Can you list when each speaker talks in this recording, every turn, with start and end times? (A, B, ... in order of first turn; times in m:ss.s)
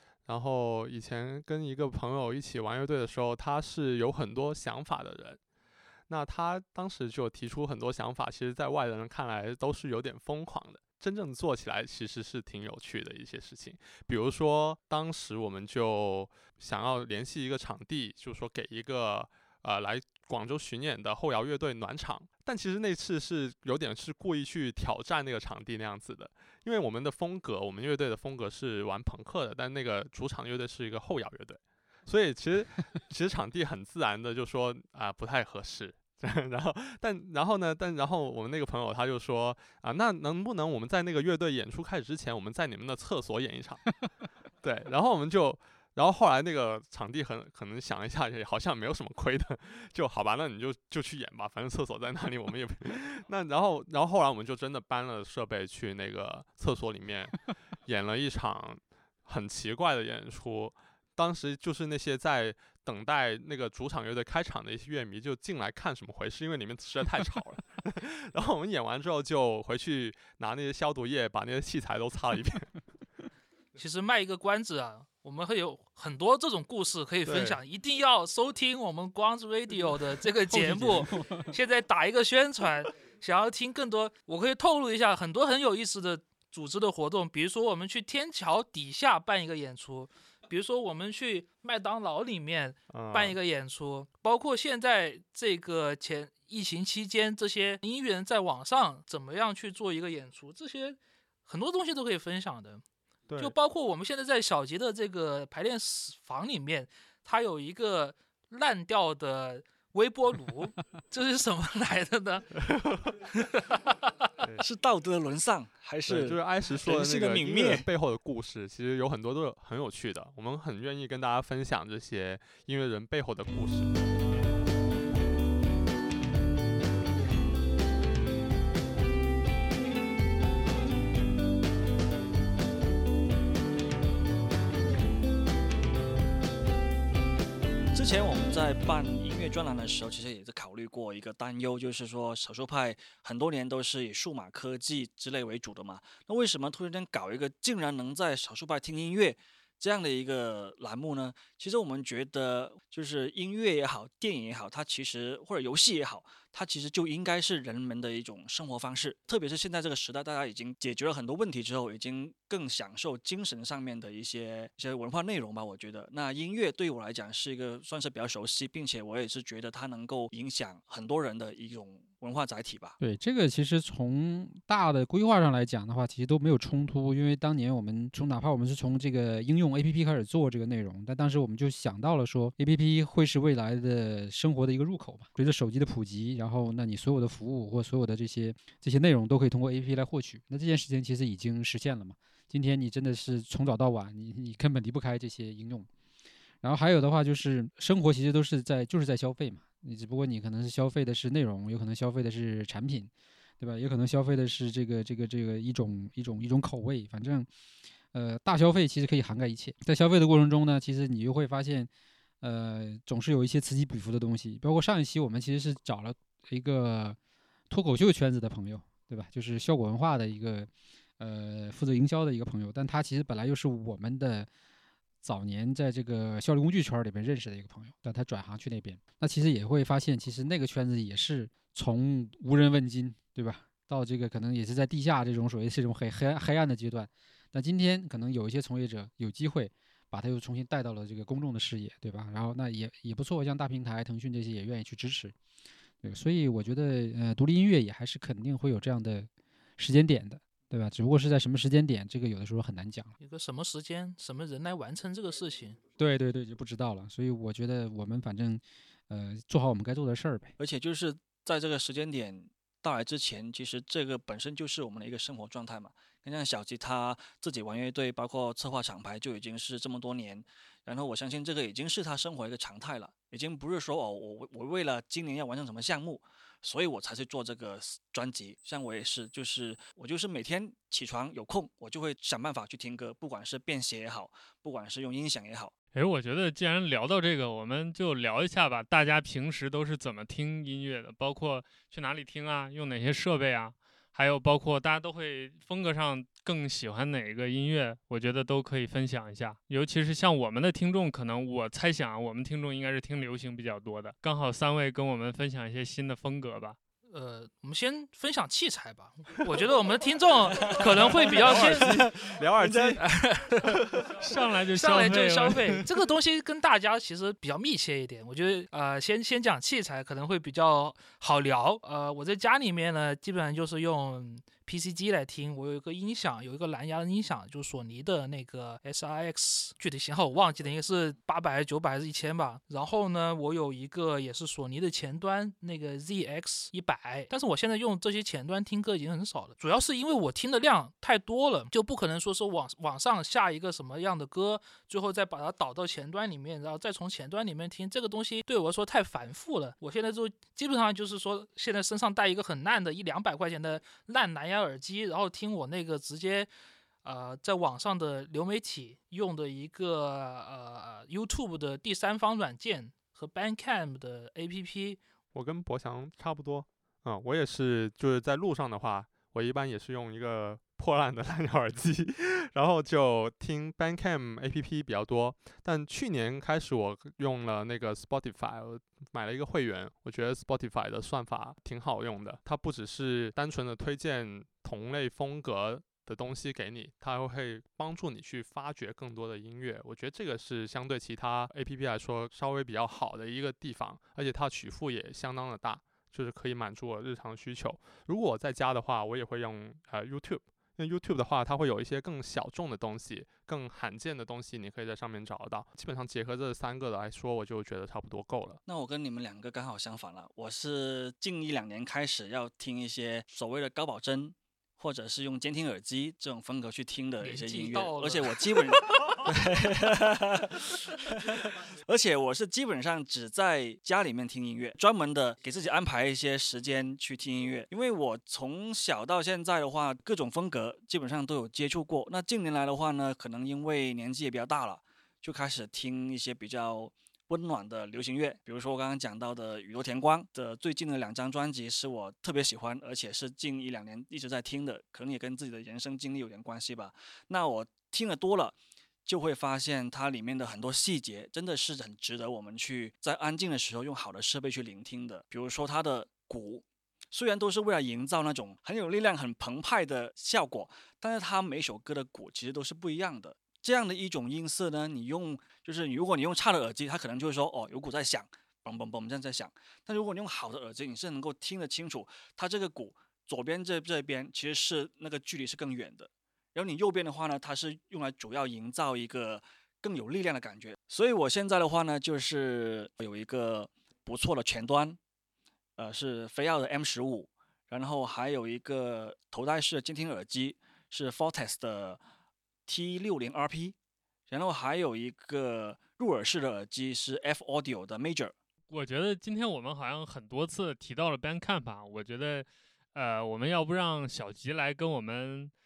0:00.2-0:05.4 A
0:06.1-0:44.0 A
0:44.6-1:12.7 A
1:13.8-1:42.8 B
1:17.2-1:17.6 A
1:20.5-1:21.5 C
1:32.9-1:33.4 A
1:43.3-1:43.5 A
1:43.4-1:52.6 B
1:52.6-1:53.1 A
1:53.6-1:54.0 B
1:54.4-1:54.6 A
1:54.6-1:57.9 D
1:56.0-2:04.0 A
2:17.9-2:53.0 D
2:53.0-3:15.9 C
3:16.6-3:27.5 C
3:28.1-3:31.9 C
3:32.4-3:37.2 C
3:37.7-3:44.5 C
3:45.2-4:05.3 C
4:06.0-4:13.1 C
4:13.2-4:15.8 B
4:16.0-4:20.5 C
4:20.6-4:45.7 D
4:45.9-5:06.8 E
5:07.1-5:12.0 B
5:10.7-5:13.0 A
5:11.5-5:12.1 D
5:12.6-5:12.9 D
5:13.0-5:13.7 B
5:13.6-5:14.4 A
5:14.2-5:15.8 E
5:14.7-5:56.5 B
5:57.0-6:05.0 B
6:05.3-6:48.6 A
6:48.7-8:05.0 D
6:57.2-6:58.5 B
8:05.8-8:12.0 D
8:12.7-8:13.7 D
8:14.3-8:18.3 D
8:18.7-8:25.5 E